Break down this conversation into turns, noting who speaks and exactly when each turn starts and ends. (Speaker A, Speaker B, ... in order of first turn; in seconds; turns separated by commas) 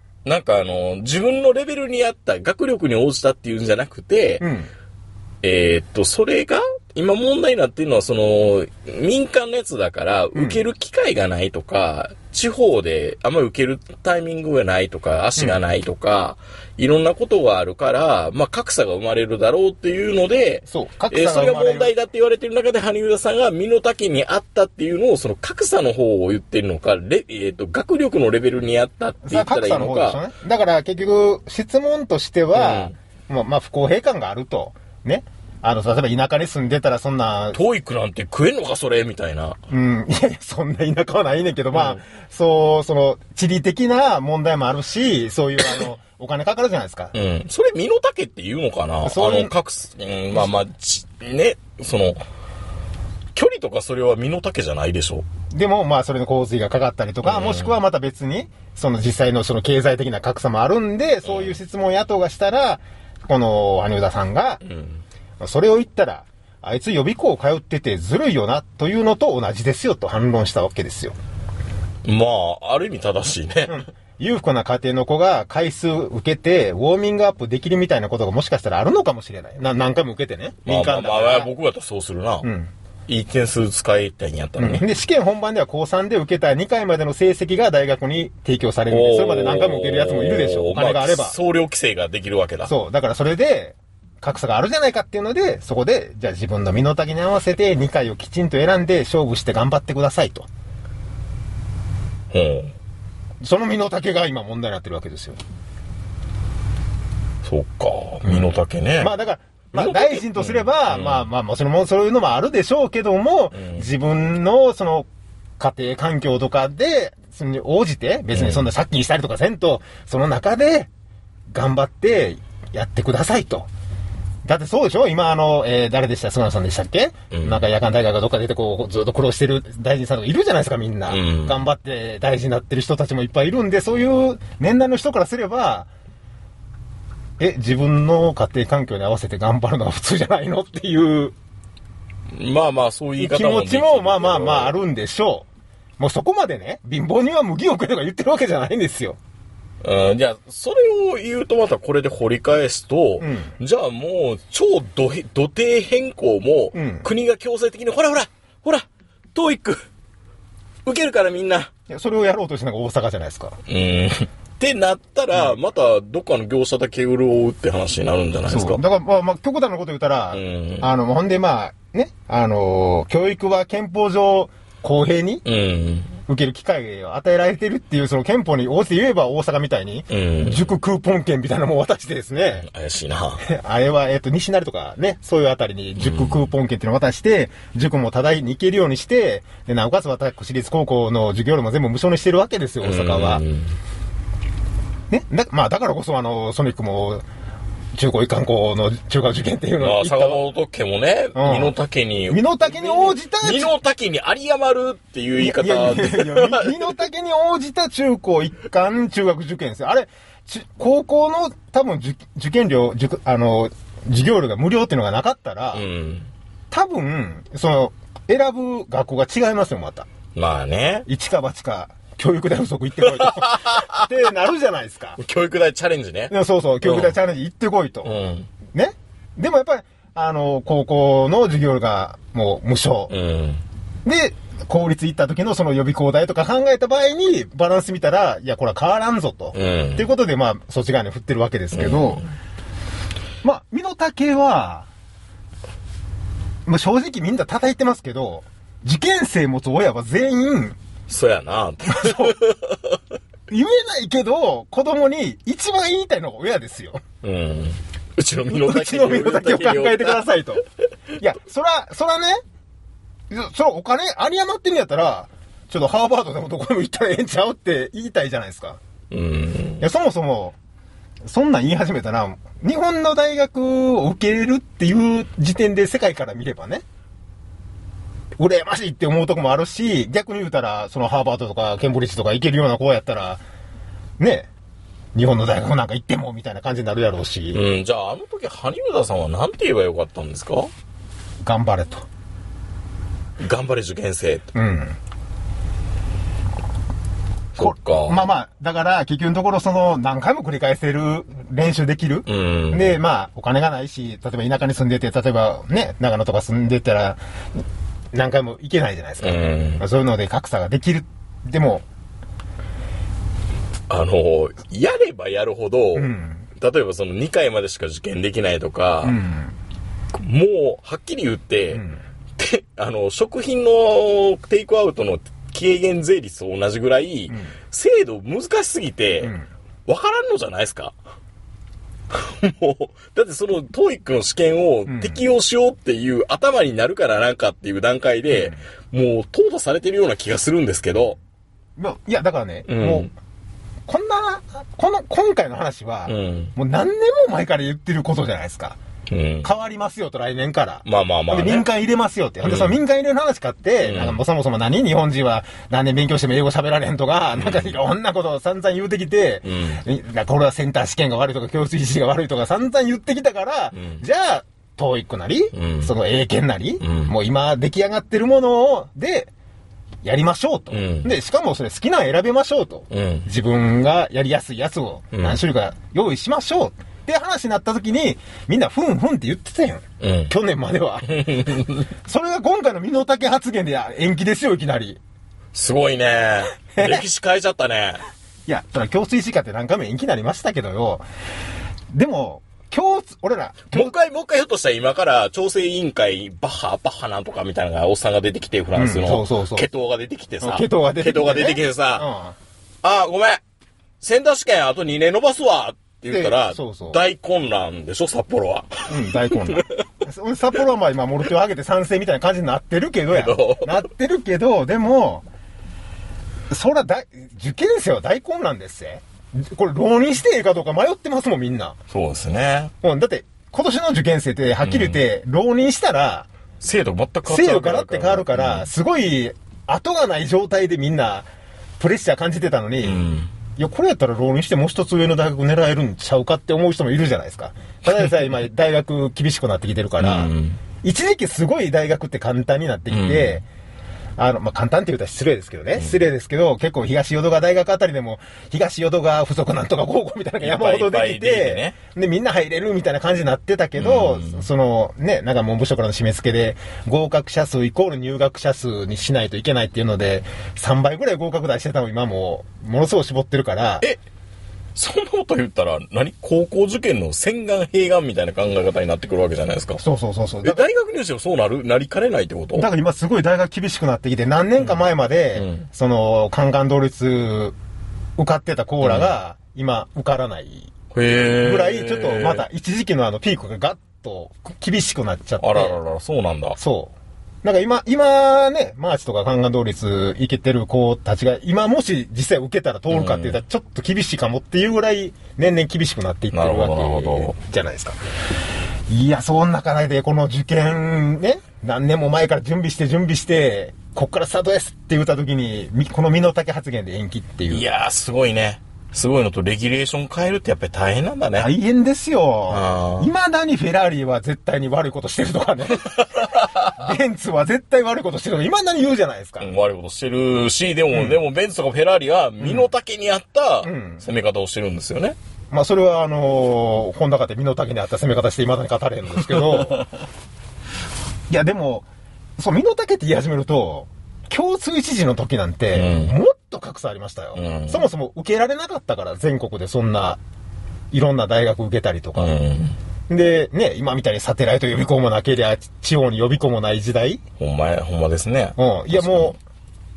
Speaker A: 0.2-4.5, Speaker B: 4.4-4.7, Speaker A: 5.4-30.2, Speaker B: 10.3-10.6, Speaker B: 20.7-21.9, Speaker B: 29.2-37.6, Speaker A: 32.5-32.9, Speaker A: 37.5-39.6, Speaker B: 39.7-47.1, Speaker A: 41.7-42.0, Speaker A: 47.1-52.2, Speaker B: 49.0-49.5, Speaker A: 53.3-55.2, Speaker B: 55.5-64.6, Speaker A: 57.2-57.7, Speaker A: 61.2-61.6, Speaker A: 64.6-65.0, Speaker B: 65.4-71.2, Speaker A: 72.0-73.8, Speaker B: 73.7-81.5, Speaker A: 80.6-82.5, Speaker B: 82.4-82.7, Speaker A: 83.1-84.9, Speaker B: 84.6-91.3, Speaker A: 88.9-92.7, Speaker B: 92.7-100.5, Speaker A: 102.3-102.7, Speaker B: 103.4-105.4, Speaker A: 107.4-109.1, Speaker B: 108.2-120.9, Speaker A: 109.7-111.3, Speaker A: 113.5-113.9, Speaker A: 118.3-118.7, Speaker B: 121.5-123.7, Speaker B: 124.4-135.9, Speaker A: 127.3-127.6, Speaker A: 131.1-131.6, Speaker B: 137.4-141.3, Speaker A: 142.3-144.8, Speaker B: 143.2-145.5, Speaker B: 146.0-149.2, Speaker A: 149.8-159.8, Speaker B: 153.2-153.5, Speaker B: 156.7-157.1, Speaker A: 160.8-161.7, Speaker B: 161.9-163.6, Speaker A: 163.7-168.8, Speaker B: 168.5-175.4, Speaker A: 170.3-170.9, Speaker A: 175.4-176.2, Speaker B: 176.3-182.7, Speaker A: 180.1-180.7, Speaker A: 182.6-183.4, Speaker B: 183.4-193.4, Speaker A: 186.0-186.4, Speaker A: 192.8-193.7, Speaker B: 195.1-197.2, Speaker B: 197.9-200.4, Speaker A: 199.8-206.9, Speaker B: 201.3-201.7, Speaker B: 202.3-203.7, Speaker B: 205.4-215.8, Speaker A: 215.7-216.3, Speaker B: 216.7-220.1, Speaker A: 220.3-221.1, Speaker B: 221.1-225.2, Speaker A: 223.0-224.3, Speaker A: 225.2-227.2, Speaker B: 226.3-228.2, Speaker A: 228.0-228.5, Speaker B: 228.7-233.1, Speaker A: 233.1-233.6, Speaker B: 234.0-242.2, Speaker A: 239.5-240.1, Speaker A: 241.7-242.2, Speaker B: 243.4-244.9, Speaker B: 246.7-250.8, Speaker A: 251.1-253.0, Speaker B: 251.9-252.3, Speaker B: 253.5-257.0, Speaker A: 257.2-260.3, Speaker B: 258.5-260.6, Speaker B: 261.1-262.4, Speaker B: 263.3-268.8, Speaker A: 269.1-269.8, Speaker B: 269.8-270.6, Speaker B: 271.2-276.8, Speaker B: 278.4-283.4, Speaker B: 284.2-284.5, Speaker B: 285.1-287.6, Speaker A: 287.5-290.7, Speaker B: 291.4-292.1, Speaker A: 293.4-294.5, Speaker B: 294.5-295.0, Speaker A: 297.6-298.3, Speaker B: 297.6-307.6, Speaker A: 302.3-303.0, Speaker B: 308.1-311.8, Speaker A: 309.2-309.8, Speaker A: 313.9-319.2, Speaker B: 315.9-316.4, Speaker B: 319.0-319.5, Speaker A: 320.1-321.8, Speaker B: 321.7-322.0, Speaker A: 322.4-329.3, Speaker A: 329.9-330.9, Speaker A: 332.1-341.2, Speaker B: 334.9-335.2, Speaker B: 338.3-338.6, Speaker B: 341.8-343.1, Speaker A: 342.7-343.1, Speaker B: 343.9-348.8, Speaker A: 346.1-346.5, Speaker A: 349.1-349.5, Speaker B: 349.4-369.3, Speaker A: 350.8-351.7, Speaker A: 352.4-352.8, Speaker A: 353.8-354.2, Speaker A: 357.3-357.8, Speaker A: 359.4-359.8, Speaker A: 363.7-364.0, Speaker A: 365.5-365.9, Speaker A: 366.8-367.1, Speaker B: 370.0-385.0, Speaker A: 370.7-371.1, Speaker A: 372.9-373.3, Speaker A: 375.1-375.4, Speaker A: 380.0-380.3, Speaker A: 381.1-381.9, Speaker A: 385.5-388.0, Speaker B: 386.8-387.0, Speaker B: 388.4-391.0, Speaker B: 391.9-393.9, Speaker A: 393.7-402.1, Speaker B: 398.7-399.7, Speaker B: 400.4-402.4, Speaker A: 402.8-403.4, Speaker A: 404.0-409.8, Speaker B: 406.1-407.0, Speaker B: 408.9-415.2, Speaker A: 413.1-413.8, Speaker B: 416.5-421.8, Speaker A: 421.9-422.7, Speaker B: 422.8-426.3, Speaker A: 424.6-425.0, Speaker A: 426.6-428.7, Speaker B: 427.2-431.3, Speaker B: 431.8-443.4, Speaker A: 432.8-433.3, Speaker A: 440.0-440.6, Speaker A: 442.9-443.4, Speaker B: 444.2-463.9, Speaker A: 450.4-451.8, Speaker A: 453.8-454.4, Speaker A: 464.8-469.8, Speaker B: 469.8-470.6, Speaker A: 470.4-472.7, Speaker B: 472.6-477.6, Speaker A: 475.3-475.7, Speaker B: 478.2-485.8, Speaker A: 478.8-479.1, Speaker A: 480.9-482.4, Speaker A: 485.4-486.6, Speaker B: 486.6-498.0, Speaker A: 492.9-493.4, Speaker A: 496.3-497.4, Speaker B: 498.9-507.6, Speaker A: 507.5-511.5, Speaker B: 511.4-519.5, Speaker A: 512.5-513.1, Speaker A: 515.8-516.9, Speaker A: 519.4-525.1, Speaker B: 520.9-521.2, Speaker B: 522.4-522.7, Speaker B: 523.6-524.0, Speaker B: 525.5-529.8, Speaker B: 531.3-540.2, Speaker A: 535.7-536.1, Speaker A: 537.3-537.9, Speaker B: 540.9-542.3, Speaker A: 542.1-542.8, Speaker B: 543.1-547.2, Speaker A: 547.4-549.4, Speaker B: 548.6-549.4